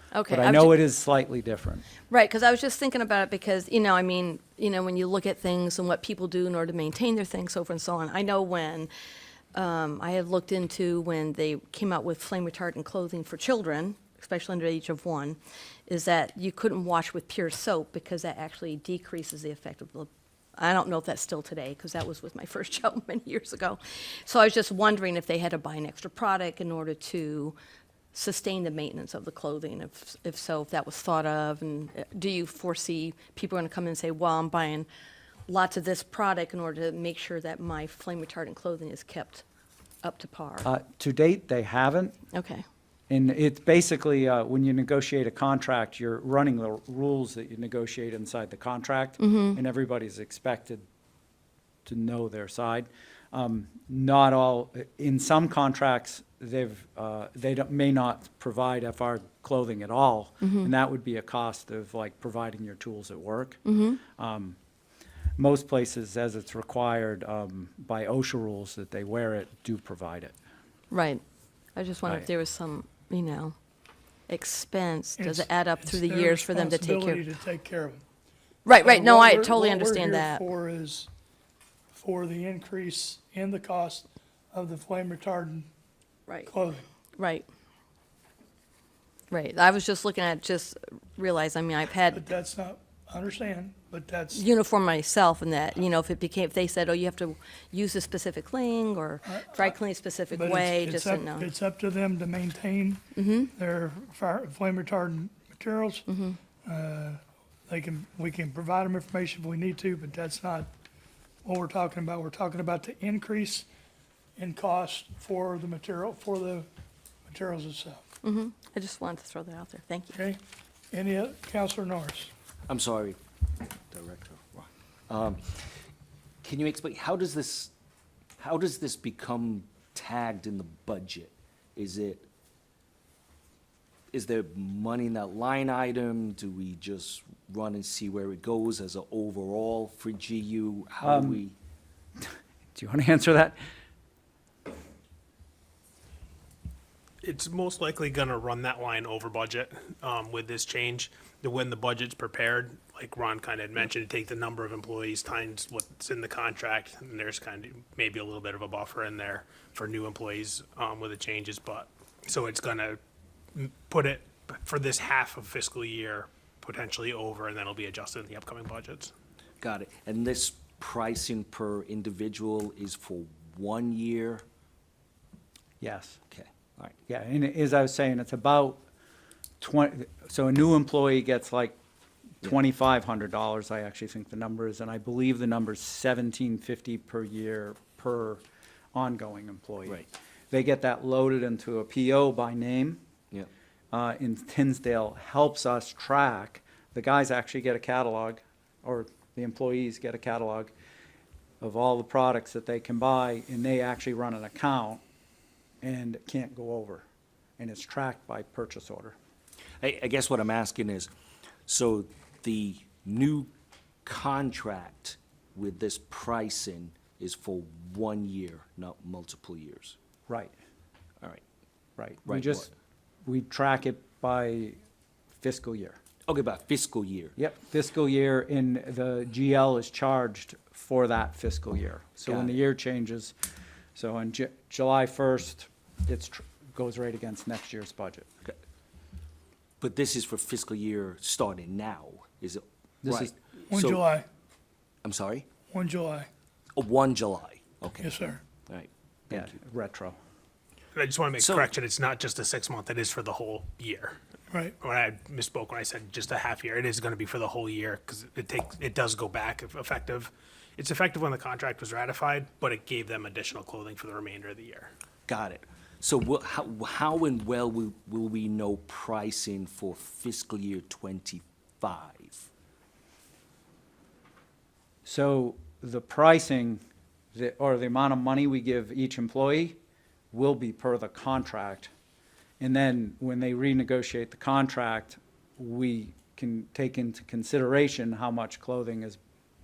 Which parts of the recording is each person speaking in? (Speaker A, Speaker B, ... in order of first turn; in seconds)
Speaker A: 0.1-0.7, 2.1-8.9, 9.5-27.6, 28.1-34.9, 35.5-39.4, 40.0-40.7, 42.3-42.6, 49.2-49.6, 60.4-60.7, 63.6-64.0, 70.9-71.2, 71.7-73.5, 74.3-77.2, 78.6-80.5, 87.2-87.5, 89.3-92.2, 94.3-101.5, 103.1-103.5, 106.1-106.4, 118.2-120.2
Speaker B: 0.3-1.9, 40.6-42.2, 43.1-50.8, 51.8-64.6, 65.4-70.3, 141.0-141.4, 142.7-143.6, 175.8-176.2, 177.1-178.8, 179.6-181.8, 182.4-188.4, 188.9-193.0, 193.9-200.7, 201.6-205.0, 205.8-207.1, 207.6-209.1, 220.3-220.5, 222.0-222.7, 223.2-224.8, 225.4-226.0, 227.3-233.3, 233.9-238.3, 243.0-243.3, 249.3-250.2, 275.0-276.8, 277.3-279.8, 280.3-281.9, 282.6-289.2
Speaker C: 75.2-78.0, 78.7-81.1, 81.9-85.7, 86.5-86.8, 92.1-94.4, 99.2-99.8, 100.3-106.0, 106.6-110.7, 111.4-113.7, 114.4-116.7, 117.3-118.0, 120.1-122.3, 243.7-244.2, 245.7-246.3, 248.0-248.4, 254.5-254.8
Speaker D: 122.7-123.2, 123.9-125.7, 126.4-127.7, 128.4-132.2, 134.1-141.5, 169.6-174.4, 176.3-176.9, 209.8-211.1, 211.7-213.5, 214.0-219.9, 222.2-222.7, 226.2-227.3, 232.2-232.6, 239.8-244.1, 245.0-245.4, 246.7-248.1, 248.7-249.5, 251.4-251.7, 265.3-272.5
Speaker E: 147.2-163.0, 163.5-169.1, 250.9-254.2, 254.8-264.9